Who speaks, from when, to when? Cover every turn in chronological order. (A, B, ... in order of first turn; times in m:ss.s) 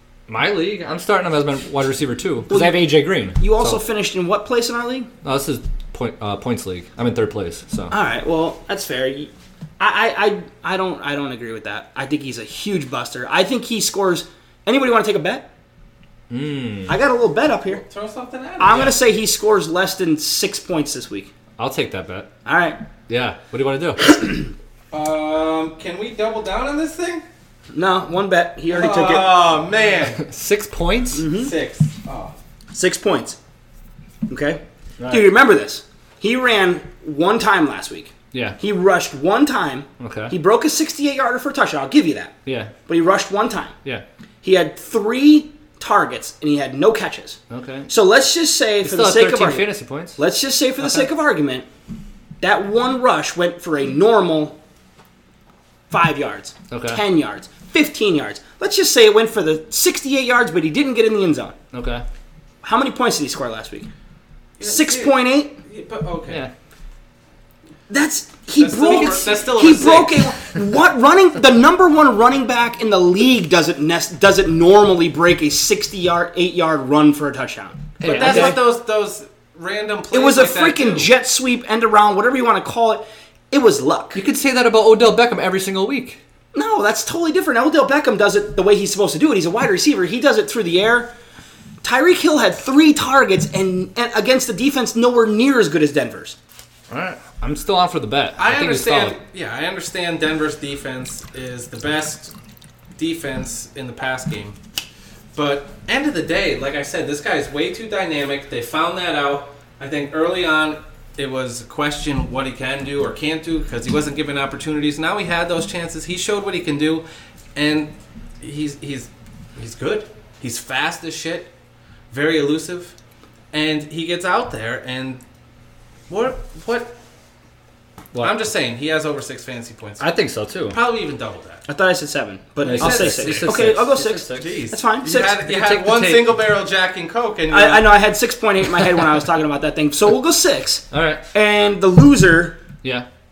0:00.3-0:03.8 A
0:02.5-0:05.1 B
0:05.2-0:07.9 A
0:07.9-0:15.5 B
0:16.3-0:16.9 A
0:16.9-0:17.8 B
0:17.7-0:19.0 C
0:18.6-0:21.3 B
0:21.6-0:22.3 A
0:22.4-0:22.8 B
0:23.1-0:24.2 A
0:24.1-0:24.3 B
0:24.9-0:27.2 C
0:27.7-0:29.5 B
0:28.7-0:30.2 C
0:30.2-0:31.2 A
0:31.1-0:31.5 B
0:31.3-0:32.3 C
0:32.7-0:33.4 B
0:34.3-0:42.3 B
0:35.0-0:35.3 A
0:38.3-0:38.6 A
0:40.0-0:40.3 A
0:42.4-0:42.7 A
0:42.9-0:43.7 B
0:44.4-0:51.7 B
0:47.5-0:47.9 A
0:48.8-0:50.2 A
0:52.4-0:54.6 B
0:55.9-1:01.6 B
0:56.7-0:57.0 A
1:01.7-1:02.0 A
1:02.6-1:03.9 B
1:04.6-1:06.4 C
1:04.6-1:05.5 B
1:07.9-1:18.6 B
1:08.6-1:10.4 C
1:08.9-1:09.3 A
1:18.0-1:18.6 A
1:18.0-1:21.1 C
1:20.1-1:24.2 B
1:24.1-1:26.2 A
1:26.5-1:31.1 B
1:31.8-1:36.4 B
1:36.9-1:39.2 A
1:38.4-1:42.3 C
1:43.0-1:44.6 C
1:45.3-2:01.5 C
2:02.1-2:02.9 C
2:03.5-2:05.2 C
2:06.1-2:07.0 C
2:08.2-2:10.1 C
2:10.0-2:10.8 A
2:10.7-2:11.6 C
2:11.7-2:15.4 B
2:12.6-2:13.8 C
2:12.6-2:14.6 A
2:14.3-2:18.0 C
2:15.4-2:16.3 A
2:17.5-2:22.6 B
2:20.9-2:21.2 A